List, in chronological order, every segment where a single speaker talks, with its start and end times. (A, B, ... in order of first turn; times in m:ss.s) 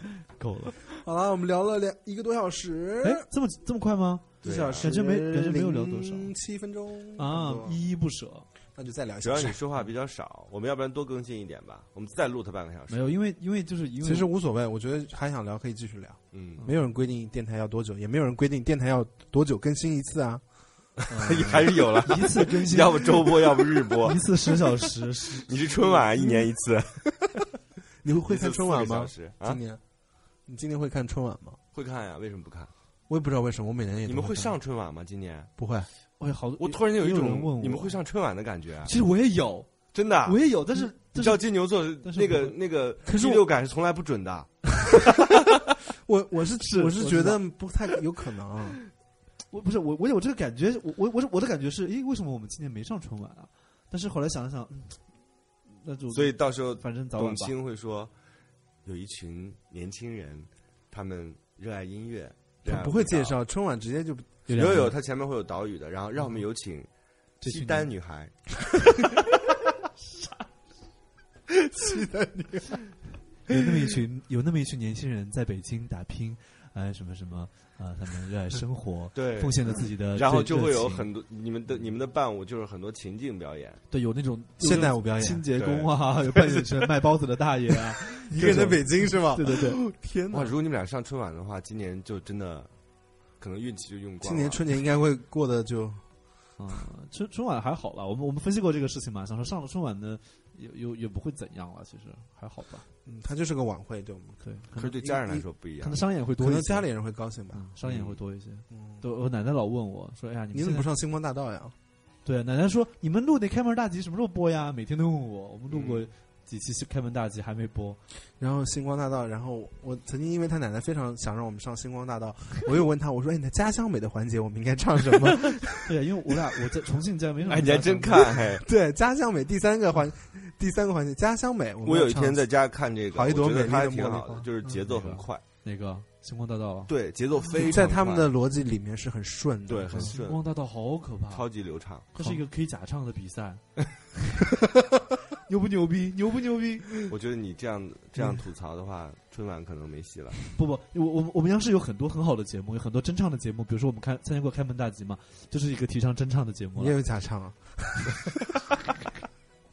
0:00.3-0:00.8 A
0:00.9-0:03.3 B
0:03.0-0:06.3 A
0:04.4-0:04.9 C
0:04.4-0:07.8 B
0:07.2-0:08.5 A
0:08.7-0:09.6 B
0:09.2-0:13.1 C
0:12.9-0:14.3 A
0:14.0-0:20.4 B
0:16.3-0:16.6 C
0:21.1-0:25.5 A
0:21.1-0:24.7 C
0:25.5-0:27.1 C
0:25.8-0:26.5 B
0:28.0-0:29.8 B
0:28.2-0:29.6 C
0:30.5-0:31.6 B
0:31.7-0:32.7 C
0:33.1-0:34.6 B
0:34.1-0:35.5 C
0:35.6-0:35.9 B
0:36.2-0:38.0 A
0:36.6-0:38.9 C
0:38.8-0:41.4 A
0:39.9-0:40.4 C
0:41.1-0:44.8 C
0:42.0-0:42.6 A
0:43.0-0:43.5 B
0:46.0-0:48.8 B
0:46.6-0:47.4 A
0:49.5-0:55.1 A
0:55.7-0:57.5 A
0:56.1-0:58.1 C
0:58.8-1:03.4 C
1:02.6-1:04.4 B
1:04.5-1:05.0 A
1:04.5-1:06.9 C
1:07.4-1:07.9 A
1:07.4-1:08.4 C
1:11.6-1:12.7 B
1:13.4-1:21.1 A
1:19.2-1:23.8 C
1:23.9-1:29.8 A
1:24.6-1:25.5 B
1:25.6-1:26.8 C
1:28.3-1:30.5 B
1:28.4-1:28.7 C
1:30.3-1:32.7 C
1:33.4-1:34.6 C
1:34.2-1:36.1 B
1:36.6-1:42.9 A
1:43.0-1:44.4 B
1:44.4-1:45.0 A
1:44.8-1:46.0 C
1:45.0-1:45.4 B
1:45.8-1:46.9 A
1:46.4-1:47.7 B
1:47.5-1:50.9 A
1:47.8-1:48.2 C
1:48.7-1:49.0 B
1:50.5-1:51.8 B
1:52.2-1:58.0 A
1:55.7-1:56.0 C
1:58.4-2:05.8 B
2:05.7-2:08.4 A
2:07.5-2:08.6 C
2:08.6-2:12.4 B
2:11.9-2:15.4 C
2:13.1-2:14.8 B
2:14.8-2:16.9 A
2:16.9-2:18.3 C
2:17.6-2:20.2 B
2:19.7-2:20.4 C
2:20.0-2:21.5 A
2:21.3-2:22.4 C
2:22.1-2:23.6 A
2:25.5-2:26.9 A
2:27.1-2:30.4 C
2:30.6-2:37.0 A
2:36.8-2:38.2 B